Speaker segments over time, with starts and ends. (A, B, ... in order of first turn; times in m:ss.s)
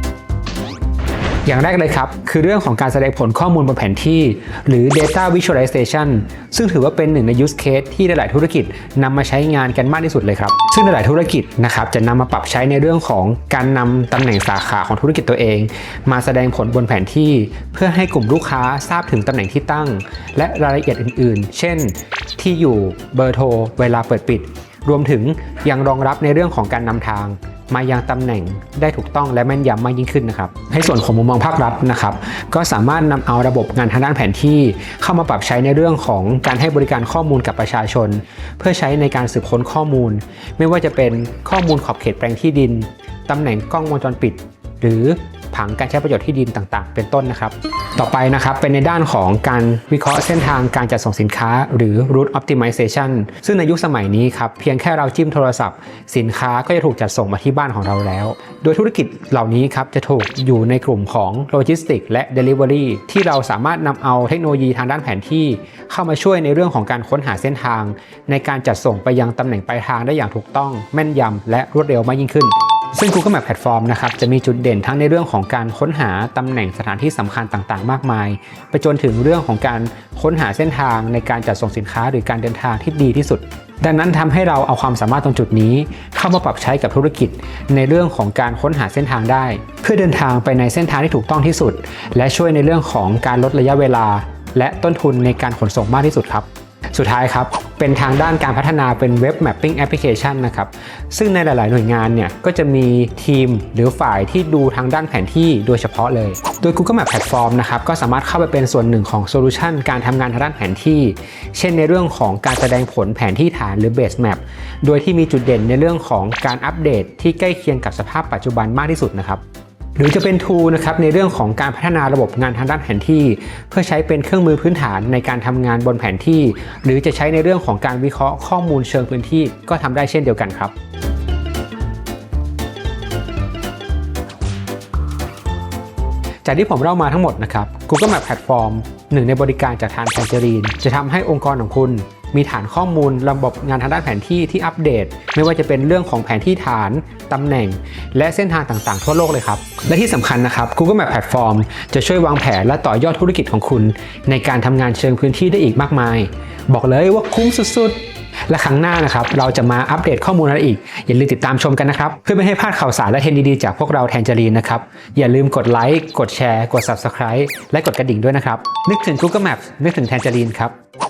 0:01.4-1:59.4 A
2:00.0-2:10.7 A
2:16.4-2:50.7 A